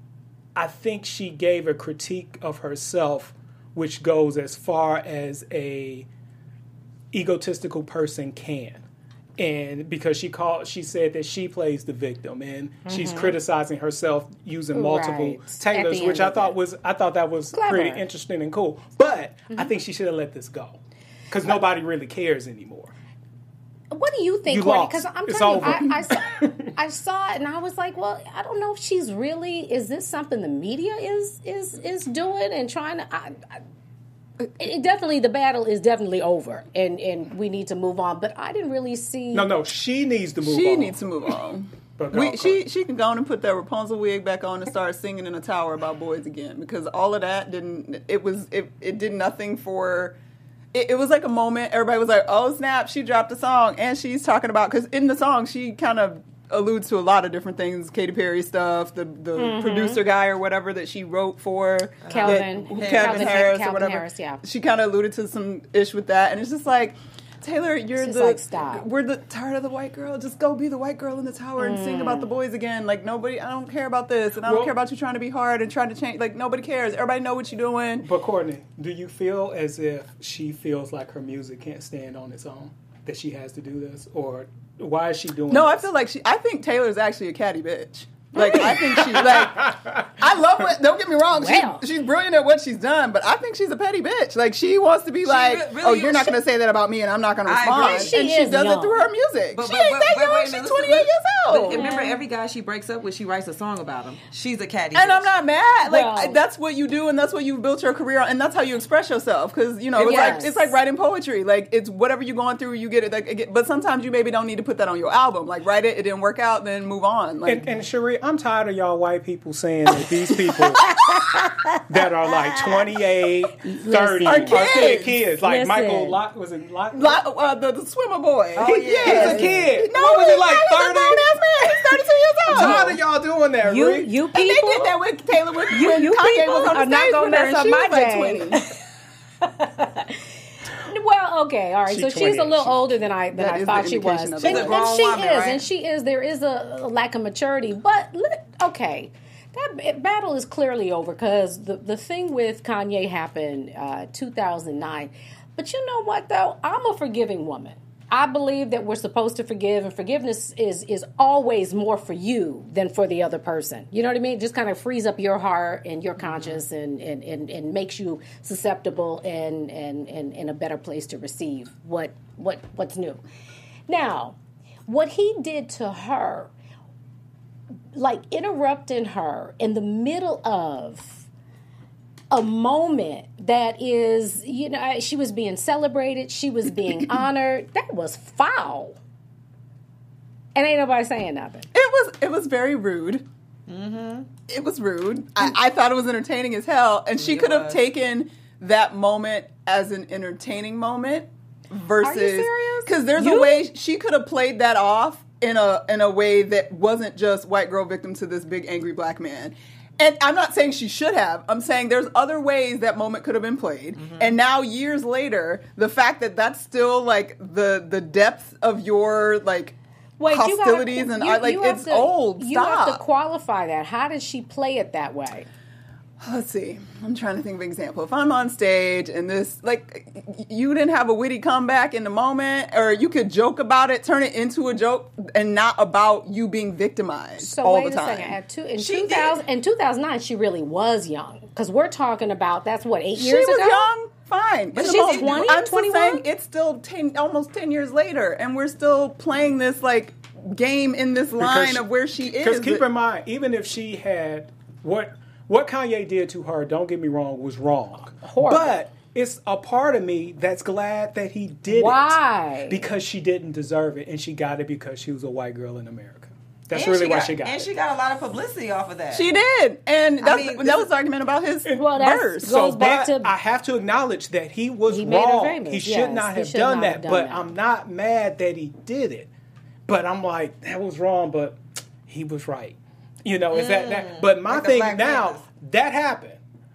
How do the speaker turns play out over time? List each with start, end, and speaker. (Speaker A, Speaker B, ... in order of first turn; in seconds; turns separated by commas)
Speaker A: 0.5-6.1, Speaker A: 7.1-8.8, Speaker A: 9.4-20.8, Speaker B: 12.8-13.3, Speaker B: 14.7-16.5, Speaker B: 17.5-18.0, Speaker A: 21.3-22.9, Speaker B: 23.9-33.6, Speaker A: 24.5-26.7, Speaker B: 34.6-39.5, Speaker A: 39.3-41.0, Speaker C: 40.4-50.1, Speaker A: 42.0-42.6, Speaker C: 50.7-78.1, Speaker B: 59.4-60.0, Speaker D: 62.0-63.5, Speaker B: 62.1-64.4, Speaker B: 68.0-68.8, Speaker B: 71.6-72.3, Speaker A: 74.4-74.7, Speaker A: 78.0-85.9, Speaker C: 85.5-101.9, Speaker B: 88.3-88.7, Speaker A: 88.4-90.2, Speaker B: 91.3-91.8, Speaker D: 95.2-96.4, Speaker D: 97.5-98.2, Speaker B: 97.7-99.1, Speaker D: 99.5-105.3, Speaker B: 101.5-102.2, Speaker C: 104.9-117.7, Speaker B: 105.8-106.4, Speaker B: 109.9-110.7, Speaker A: 117.4-120.9, Speaker B: 120.8-122.9, Speaker A: 121.9-127.2, Speaker B: 123.6-126.2, Speaker C: 124.2-125.2, Speaker C: 126.9-132.9, Speaker D: 128.5-129.6, Speaker A: 128.6-131.3, Speaker B: 132.4-133.0, Speaker A: 132.5-134.1, Speaker B: 133.6-135.0, Speaker C: 134.3-138.6, Speaker B: 135.7-138.8, Speaker B: 139.4-140.3, Speaker B: 140.8-173.2, Speaker A: 141.9-142.9, Speaker C: 143.3-144.9, Speaker D: 144.4-145.6, Speaker D: 166.3-166.6, Speaker B: 173.9-176.5, Speaker B: 177.9-181.2, Speaker B: 182.3-189.0, Speaker B: 190.5-191.7, Speaker C: 191.7-193.2, Speaker D: 193.7-194.3, Speaker C: 194.4-223.0, Speaker D: 197.2-197.8, Speaker B: 202.0-203.6, Speaker D: 213.9-214.4, Speaker B: 220.2-225.5, Speaker C: 226.2-238.4, Speaker B: 237.4-243.9, Speaker D: 238.8-239.4, Speaker C: 243.2-252.8, Speaker D: 244.7-245.6, Speaker B: 244.8-246.2, Speaker A: 251.4-267.7, Speaker B: 258.2-258.8, Speaker B: 261.7-262.8, Speaker D: 266.7-269.3, Speaker C: 269.1-272.5, Speaker D: 270.2-270.9, Speaker A: 271.6-279.3, Speaker B: 271.7-273.3, Speaker B: 274.9-277.4, Speaker A: 279.9-286.4, Speaker D: 283.5-285.4